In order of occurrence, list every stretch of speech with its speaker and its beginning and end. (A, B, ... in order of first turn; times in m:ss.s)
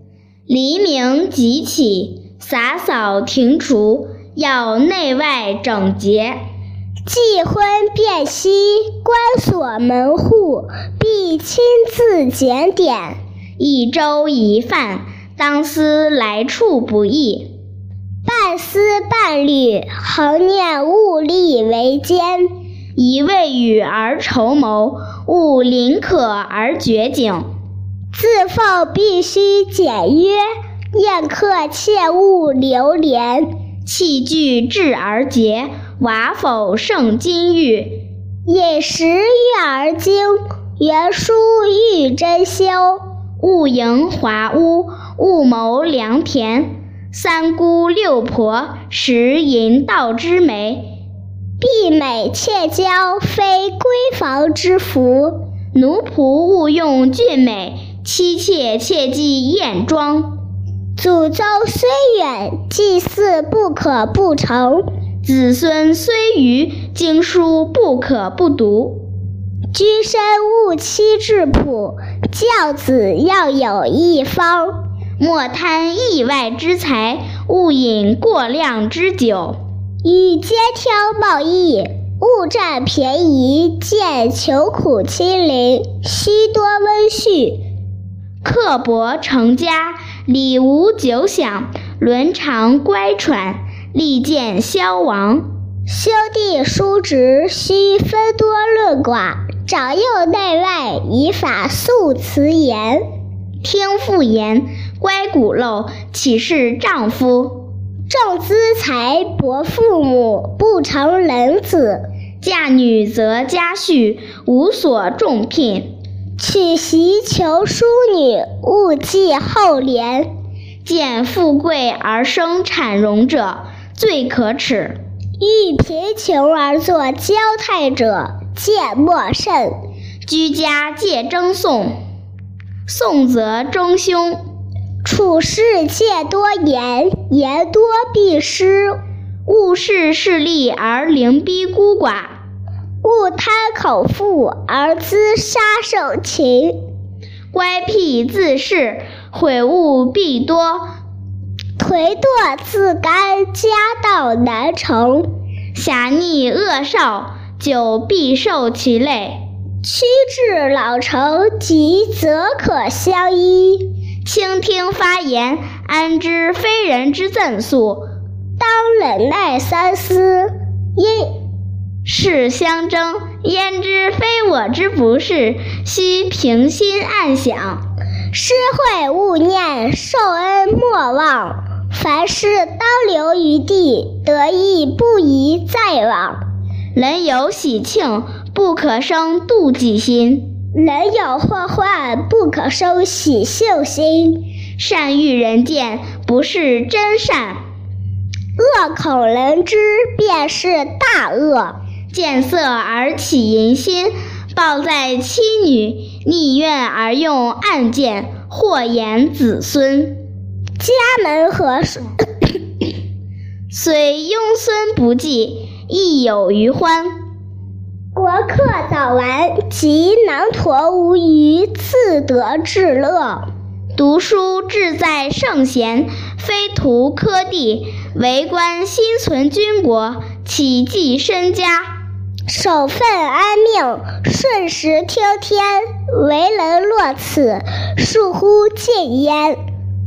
0:00.5-0:06.4 A
0:07.1-0:13.2 B
0:13.6-0:17.5 A
0:18.2-0:22.5 B
0:23.0-0:27.5 A
0:28.1-0:33.5 B
0:33.8-0:38.0 A
0:38.4-0:43.0 B
0:43.4-0:50.9 A
0:51.6-0:55.4 B
0:55.7-1:00.4 A
1:01.0-1:04.8 B
1:05.2-1:09.0 A
1:09.7-1:14.8 B
1:15.2-1:19.6 A
1:20.0-1:27.6 B
1:28.4-1:35.5 A
1:35.9-1:43.0 B
1:43.6-1:47.7 A
1:48.1-1:52.0 B
1:52.4-1:55.9 A
1:56.4-2:00.3 B
2:00.8-2:05.0 A
2:05.4-2:09.7 B
2:10.2-2:12.0 A
2:12.8-2:14.4 A
2:15.0-2:19.0 B
2:19.4-2:22.4 A
2:23.0-2:26.8 B
2:27.5-2:30.9 A
2:31.8-2:35.3 B
2:35.7-2:39.4 A
2:39.8-2:43.9 B
2:44.2-2:48.1 A
2:48.6-2:51.3 B
2:52.0-2:57.8 A
2:58.3-3:06.4 B
3:06.9-3:10.5 A
3:10.7-3:14.4 B
3:14.8-3:17.6 A
3:18.6-3:21.8 B
3:22.1-3:30.2 A
3:30.8-3:32.1 B
3:33.7-3:37.1 A
3:38.1-3:43.5 B
3:43.9-3:51.9 A
3:52.5-3:59.6 B